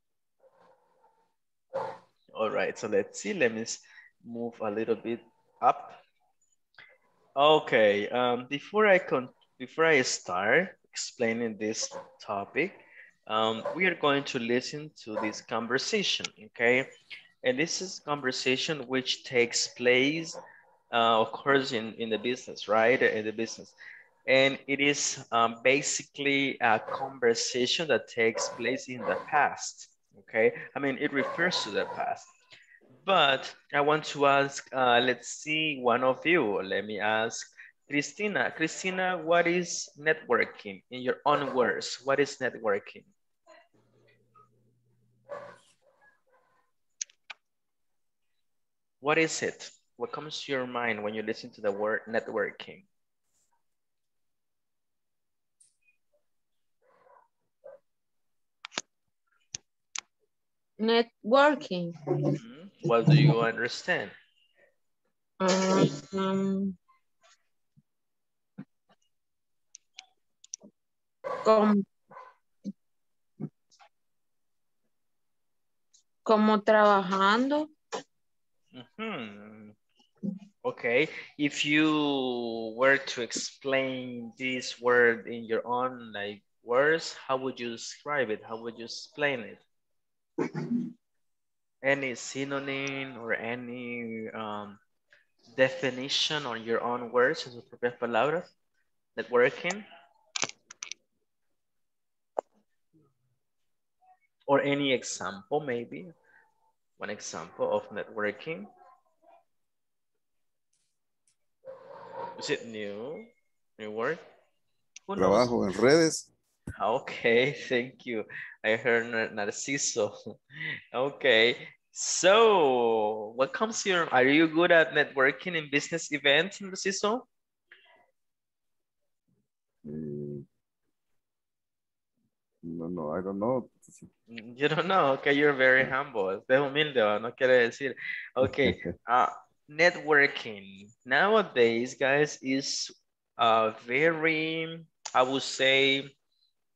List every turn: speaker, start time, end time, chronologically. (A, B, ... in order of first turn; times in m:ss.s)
0:02.3-0:06.0 A
0:07.4-0:16.9 A
0:17.4-0:20.4 A
0:20.9-0:23.7 A
0:24.3-0:32.3 A
0:33.0-0:43.1 A
0:49.0-0:52.8 A
1:00.8-1:02.3 B
1:02.3-1:04.1 A
1:05.4-1:06.7 B
1:11.4-1:11.8 B
1:16.2-1:17.7 B
1:18.7-1:19.8 A
1:20.6-1:29.6 A
1:31.8-1:34.8 A
1:35.5-1:38.5 A
1:39.2-1:39.8 A
1:44.5-1:46.1 A
1:47.0-1:48.7 A
1:52.4-1:54.2 A
1:55.1-1:55.5 A
1:55.2-1:56.3 C
1:56.8-2:00.1 A
2:00.9-2:07.2 A
2:09.8-2:10.4 C
2:12.6-2:14.1 C
2:14.3-2:26.1 A
2:18.4-2:18.9 C